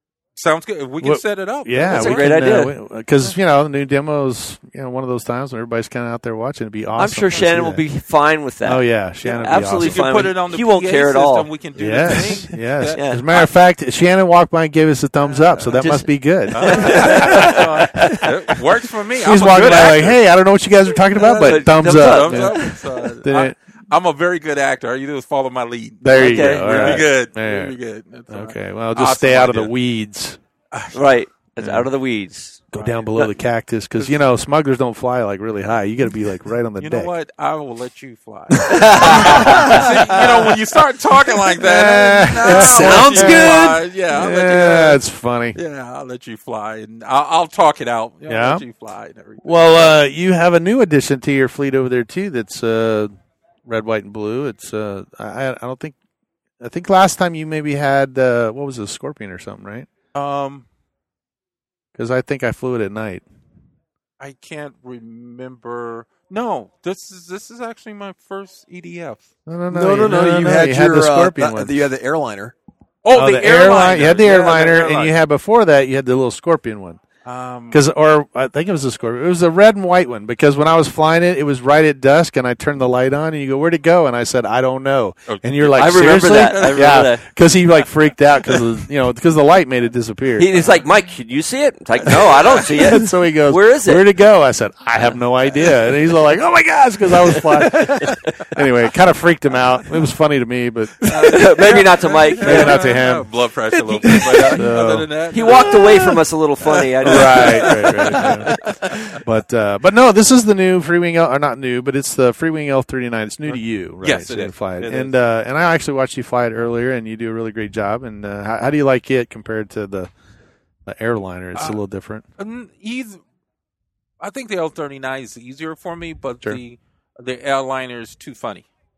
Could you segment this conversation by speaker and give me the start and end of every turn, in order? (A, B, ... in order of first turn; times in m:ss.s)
0:00.4-0:02.6 A
0:01.0-0:07.8 B
0:01.8-0:02.7 C
0:07.0-0:12.4 C
0:08.6-0:10.1 B
0:09.2-0:13.5 A
0:11.8-0:18.3 B
0:12.9-0:13.2 C
0:15.4-0:15.7 A
0:15.8-0:18.3 C
0:16.5-0:20.2 A
0:19.2-0:23.5 B
0:21.1-0:29.7 A
0:21.2-0:23.1 C
0:26.0-0:27.7 B
0:26.1-0:27.1 C
0:28.3-0:30.4 B
0:30.7-0:31.0 A
0:30.9-0:32.7 C
0:31.6-0:31.9 B
0:32.7-0:37.1 B
0:32.8-0:33.0 A
0:36.8-0:45.0 A
0:38.6-0:40.0 C
0:38.7-0:40.5 B
0:41.6-0:45.6 B
0:42.4-0:43.8 C
0:45.5-0:50.0 A
0:48.3-0:48.6 B
0:49.4-0:53.1 B
0:53.6-0:56.0 B
0:56.6-0:59.9 B
1:00.1-1:00.6 A
1:01.9-1:03.2 B
1:04.2-1:09.2 A
1:09.4-1:11.9 B
1:09.7-1:12.5 D
1:13.0-1:15.1 A
1:13.1-1:17.0 B
1:17.2-1:17.8 A
1:17.7-1:30.5 B
1:25.3-1:27.0 A
1:25.8-1:27.2 C
1:30.4-1:34.0 C
1:32.1-1:41.8 B
1:37.2-1:38.3 C
1:41.1-1:43.0 C
1:41.1-1:46.2 A
1:42.4-1:43.3 B
1:43.8-1:44.5 D
1:44.0-1:45.1 B
1:45.3-1:48.4 C
1:45.6-1:46.2 D
1:47.0-1:48.5 B
1:47.0-1:49.2 A
1:49.2-2:00.1 B
1:53.5-1:55.1 A
2:00.8-2:02.2 B
2:02.4-2:03.2 A
2:04.2-2:08.6 A